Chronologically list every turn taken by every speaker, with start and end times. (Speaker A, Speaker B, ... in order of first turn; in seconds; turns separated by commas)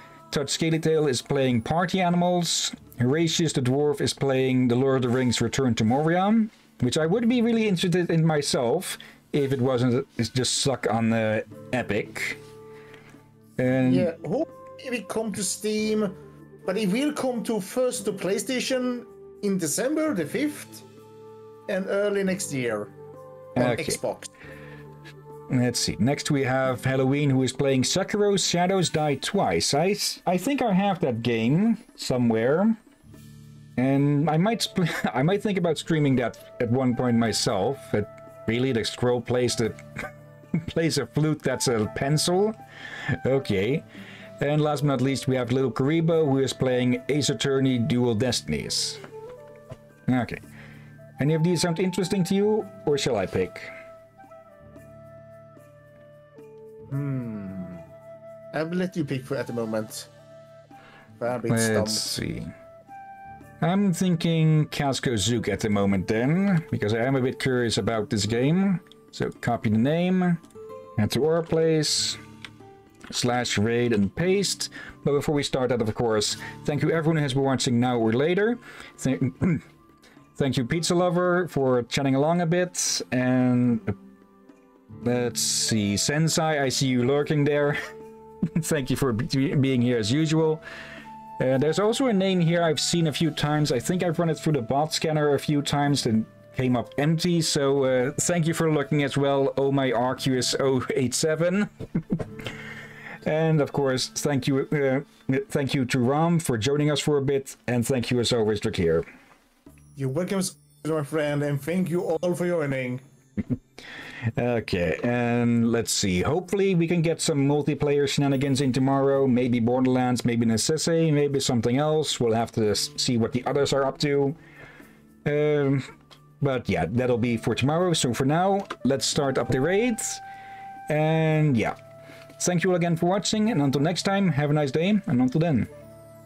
Speaker A: 0.3-12.4, Speaker A: 13.6-14.1, Speaker B: 13.8-20.9, Speaker B: 21.7-22.9, Speaker A: 23.6-24.0, Speaker B: 23.6-24.3, Speaker A: 25.5-32.8, Speaker A: 33.8-39.8, Speaker A: 40.5-42.6, Speaker A: 43.2-43.9, Speaker A: 44.4-49.0, Speaker A: 50.1-50.4, Speaker A: 51.2-53.7, Speaker B: 56.9-57.8, Speaker B: 58.5-60.1, Speaker B: 61.2-62.0, Speaker A: 61.5-62.5, Speaker A: 63.6-70.4, Speaker A: 71.0-72.2, Speaker A: 73.1-79.7, Speaker A: 80.4-84.0, Speaker A: 85.0-87.8, Speaker A: 88.6-90.6, Speaker A: 91.4-102.5, Speaker A: 103.2-109.1, Speaker B: 110.0-113.0, Speaker A: 114.3-124.4, Speaker A: 125.2-125.8, Speaker A: 126.4-130.2, Speaker A: 130.9-131.8, Speaker A: 132.4-135.7